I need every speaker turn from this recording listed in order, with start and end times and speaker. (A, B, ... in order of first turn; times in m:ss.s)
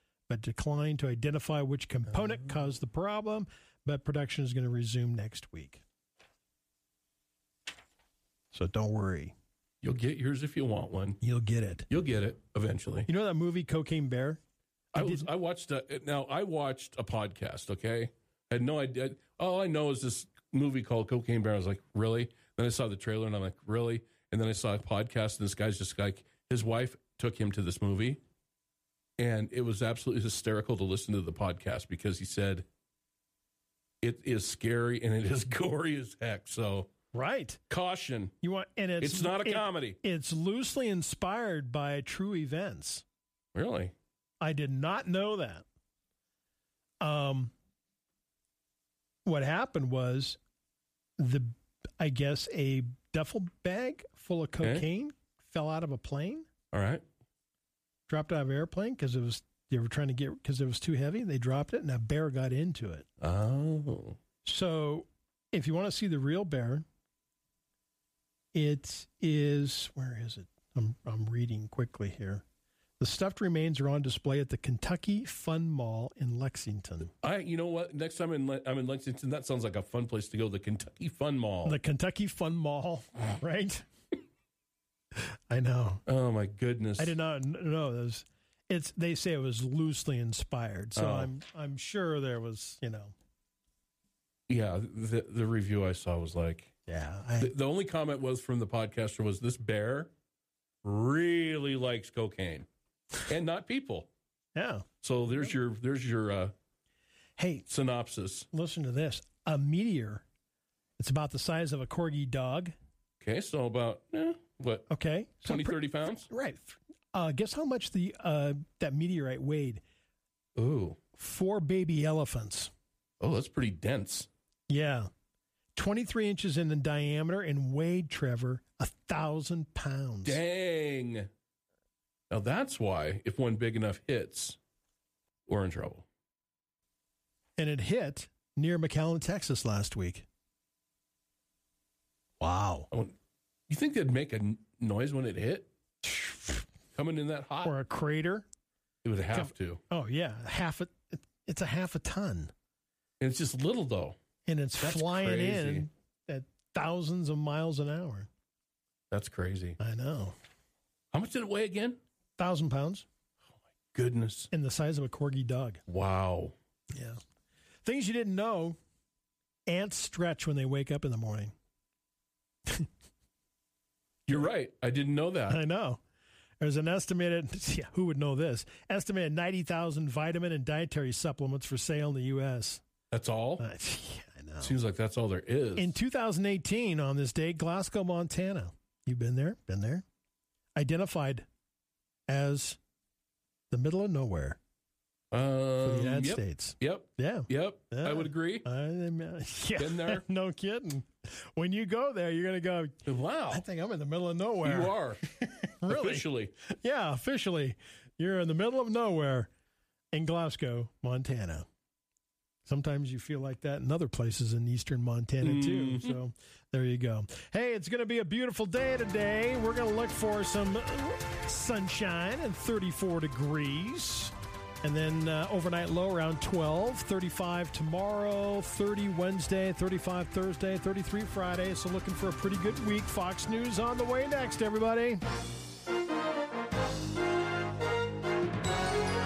0:00.3-0:05.8 A
0:08.5-0:09.3 A
0:09.8-0:11.2 B
0:11.2-0:11.9 A
0:11.9-0:13.1 B
0:13.1-0:14.4 A
0:15.0-0:28.2 B
0:15.0-0:15.3 A
0:29.2-0:32.7 B
0:34.0-0:36.9 B
0:37.1-0:37.6 A
0:37.7-0:38.3 B
0:38.4-0:43.0 A
0:39.0-0:40.0 B
0:43.6-0:43.9 B
0:44.4-0:45.6 A
0:47.0-0:47.5 A
0:49.3-0:50.4 A
0:51.2-0:56.5 A
0:56.7-0:57.0 B
0:58.1-1:03.1 A
1:03.2-1:04.2 B
1:04.4-1:06.8 A
1:08.5-1:12.4 A
1:13.0-1:17.1 A
1:17.2-1:21.8 B
1:21.6-1:23.9 A
1:25.5-1:26.0 A
1:26.1-1:27.2 B
1:27.0-1:33.1 A
1:31.0-1:31.3 B
1:34.5-1:36.7 B
1:36.9-1:37.5 A
1:37.4-1:40.1 B
1:40.8-1:42.7 B
1:43.2-1:44.1 B
1:44.6-1:44.8 A
1:45.0-1:46.5 B
1:47.4-1:47.7 A
1:47.7-1:48.5 B
1:48.5-1:50.2 A
1:51.0-1:52.7 A
1:53.2-1:54.9 B
1:54.9-1:59.8 A
1:55.4-1:56.3 B
2:00.6-2:01.0 B
2:01.2-2:02.7 A
2:03.2-2:04.3 B
2:04.7-2:05.1 A
2:05.8-2:10.4 A
2:10.2-2:11.3 B
2:12.3-2:14.6 B
2:15.5-2:16.0 B
2:17.6-2:20.3 A
2:22.4-2:22.9 A
2:23.7-2:25.7 B
2:26.0-2:26.6 A
2:27.0-2:27.7 B
2:27.6-2:28.5 A
2:29.0-2:29.8 B
2:29.3-2:32.5 A
2:33.2-2:34.2 B
2:34.5-2:38.3 A
2:34.8-2:35.9 B
2:39.1-2:39.8 B
2:39.8-2:40.4 A
2:41.1-2:42.0 B
2:42.4-2:43.1 A
2:43.9-2:44.5 B
2:44.5-2:45.8 A
2:45.9-2:46.5 B
2:46.9-2:47.2 A
2:47.8-2:48.8 A
2:49.7-2:51.5 A
2:54.3-2:55.6 B
2:55.5-2:56.0 A
2:56.6-3:02.8 A
3:03.1-3:03.6 B
3:03.6-3:04.8 A
3:04.6-3:06.0 B
3:05.8-3:10.0 A
3:10.8-3:11.5 A
3:12.3-3:12.8 A
3:13.7-3:14.6 A
3:15.3-3:18.7 B
3:15.8-3:29.5 A
3:19.8-3:20.2 B
3:23.1-3:23.6 B
3:24.6-3:25.2 B
3:25.9-3:26.5 B
3:30.1-3:31.7 A
3:32.7-3:55.2 A
3:35.4-3:36.2 B